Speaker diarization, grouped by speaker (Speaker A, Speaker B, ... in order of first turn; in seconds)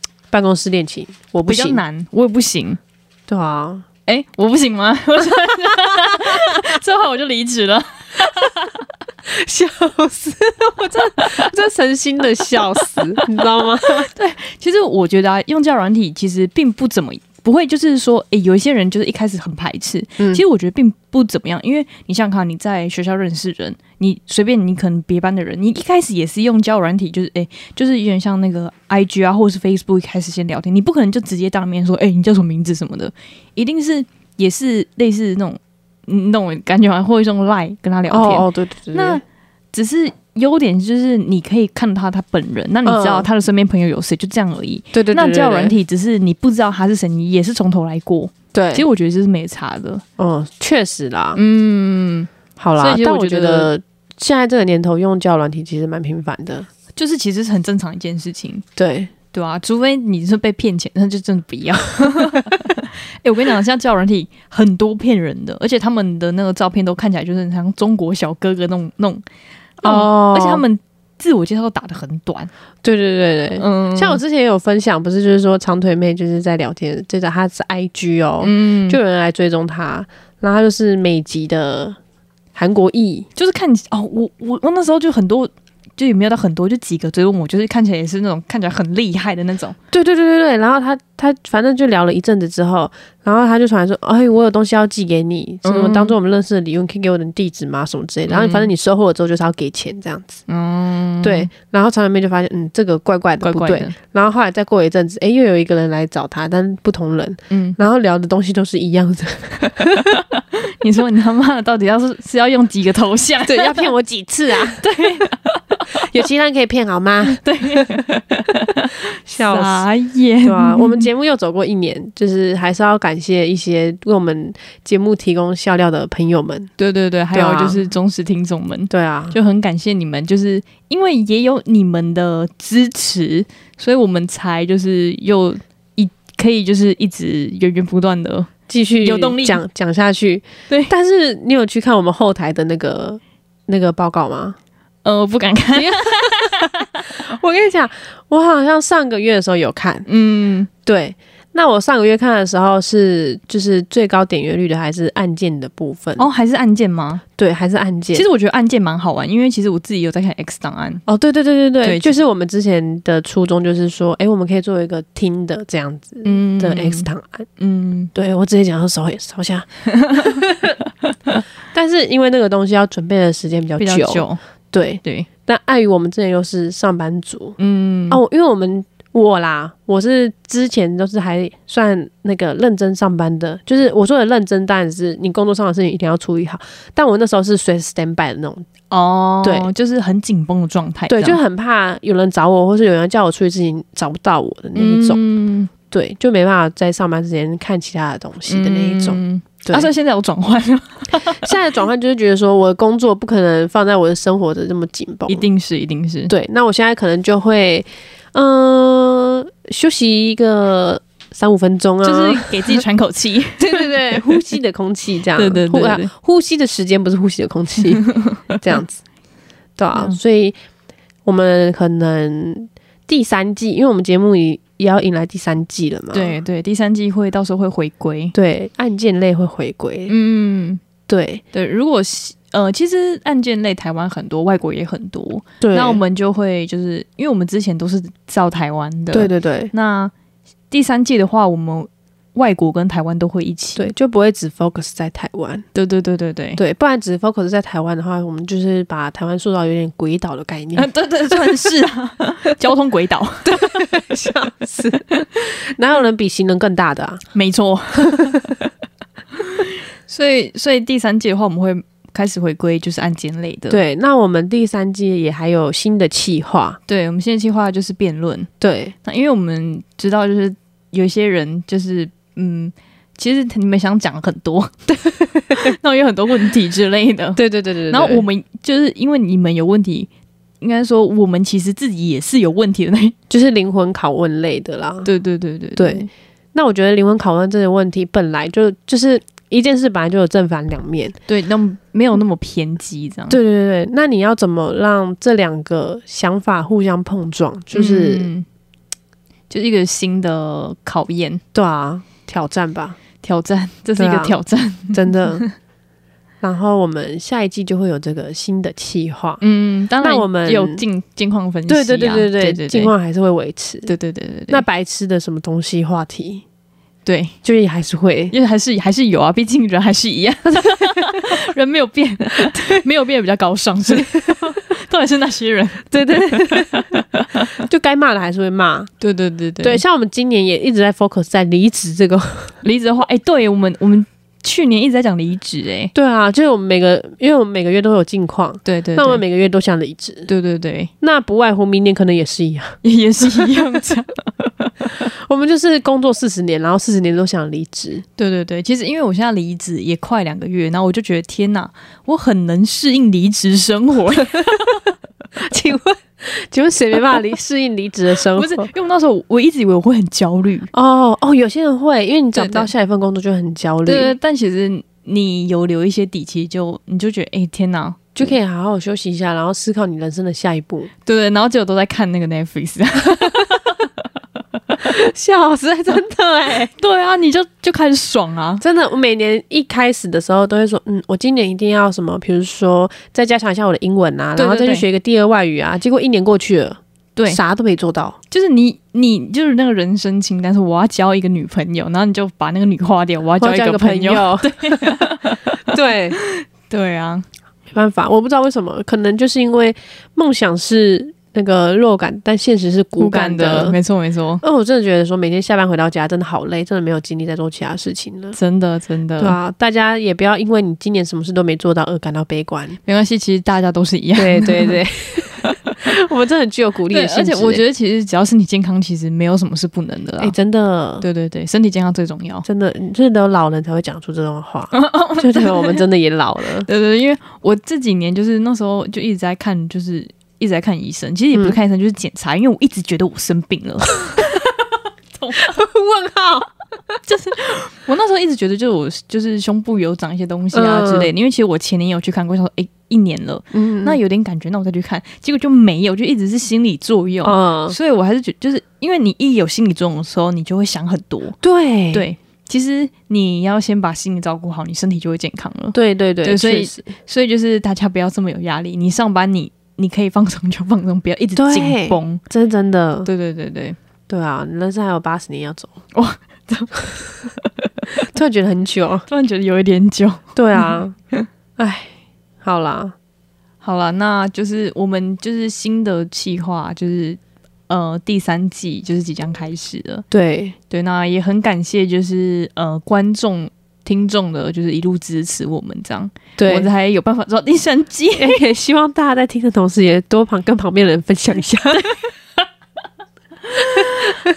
Speaker A: 0.3-1.8, 3.3-3.9, 5.9-6.5, 9.3-14.1, 38.1-39.2, 42.9-43.3, 44.9-45.8, 48.5-48.9, 50.2-51.4, 52.6-56.7, 58.8-59.1, 69.8-70.6, 72.8-82.0, 82.5-83.3, 89.9-100.4, 101.2-110.0, 113.5-114.9, 116.0-118.0, 119.3-119.9, 120.4-126.7, 127.3-127.8, 128.9-129.4, 138.7-144.6, 145.8-150.1, 150.8-156.2, 157.4-158.2, 161.1-167.5, 168.2-170.8, 171.7-177.6, 178.1-188.7, 189.4-189.7, 191.1-195.2, 195.9-199.9, 201.2-205.4, 206.3-212.8, 213.6-219.0, 219.8-220.6, 221.2-226.3, 228.3-230.1, 231.1-231.4, 235.6-236.0, 239.1-239.7, 243.8-245.7, 246.6-250.9, 253.4-257.2, 258.0-258.7, 263.7-266.8, 268.6-268.9, 275.1-275.8, 277.4-278.2, 283.3-285.1, 285.8-291.2, 293.3-298.3, 301.5-303.0, 304.0-304.4, 304.9-305.4, 306.4-309.4, 310.0-310.8, 311.7-313.9, 314.5-316.4, 317.4-318.3, 320.6-321.1, 324.1-324.5, 325.9-327.0, 327.6-328.9, 329.6-332.6, 335.9-340.3, 341.0-342.8, 345.0-348.1, 355.4-358.7, 360.7-364.1, 368.2-370.9, 374.8-376.7, 378.6-388.2, 393.4-395.1, 395.7-396.2, 397.7-403.8, 404.4-408.4, 409.2-412.8, 414.2-417.6, 420.2-421.0, 422.5-426.7, 435.4-436.5, 440.5-441.1, 443.5-444.0, 447.2-447.8, 451.4-452.1, 455.7-456.9, 461.4-463.1, 464.1-465.8, 468.0-469.1, 470.4-470.9, 471.6-472.9, 480.1-480.6, 486.4-486.7, 488.2-492.0, 493.8-494.2
Speaker B: 1.4-2.8, 4.1-8.7, 14.1-39.2, 39.7-50.0, 51.4-53.7, 57.0-58.6, 59.3-69.2, 69.8-72.5, 73.6-74.2, 78.4-79.0, 83.4-89.8, 95.6-96.1, 98.3-98.7, 100.5-101.5, 103.4-104.0, 107.5-107.8, 109.8-113.9, 114.8-116.0, 117.3-121.1, 126.8-138.5, 139.0-139.6, 145.0-146.7, 150.1-150.7, 156.2-157.2, 158.1-161.1, 161.8-162.1, 166.2-168.1, 169.9-170.4, 173.8-174.4, 177.6-178.2, 188.9-191.4, 194.8-195.7, 198.5-201.5, 205.3-206.3, 212.0-213.9, 215.4-216.1, 218.1-218.6, 226.1-228.3, 230.1-230.8, 231.5-240.1, 240.7-243.9, 245.7-246.6, 250.8-253.8, 257.3-258.5, 259.4-263.8, 266.9-268.5, 269.0-274.7, 275.5-280.1, 280.6-283.2, 285.1-286.1, 291.3-293.4, 297.7-298.4, 299.5-301.4, 303.2-305.5, 309.4-312.9, 313.9-314.6, 317.1-317.4, 318.3-327.6, 329.0-329.8, 332.6-335.9, 338.6-339.2, 340.3-340.9, 342.8-344.9, 348.2-354.8, 358.4-360.7, 362.3-362.7, 363.9-368.2, 371.1-373.9, 376.8-378.6, 384.4-384.9, 388.3-395.6, 396.2-397.2, 403.0-404.4, 408.4-409.4, 412.9-414.8, 416.9-420.3, 421.0-422.5, 424.7-425.8, 426.6-434.3, 435.1-435.6, 437.1-451.4, 451.9-462.2, 463.1-463.8, 465.9-467.9, 469.1-471.3, 473.6-480.1, 480.7-488.4, 493.6-493.9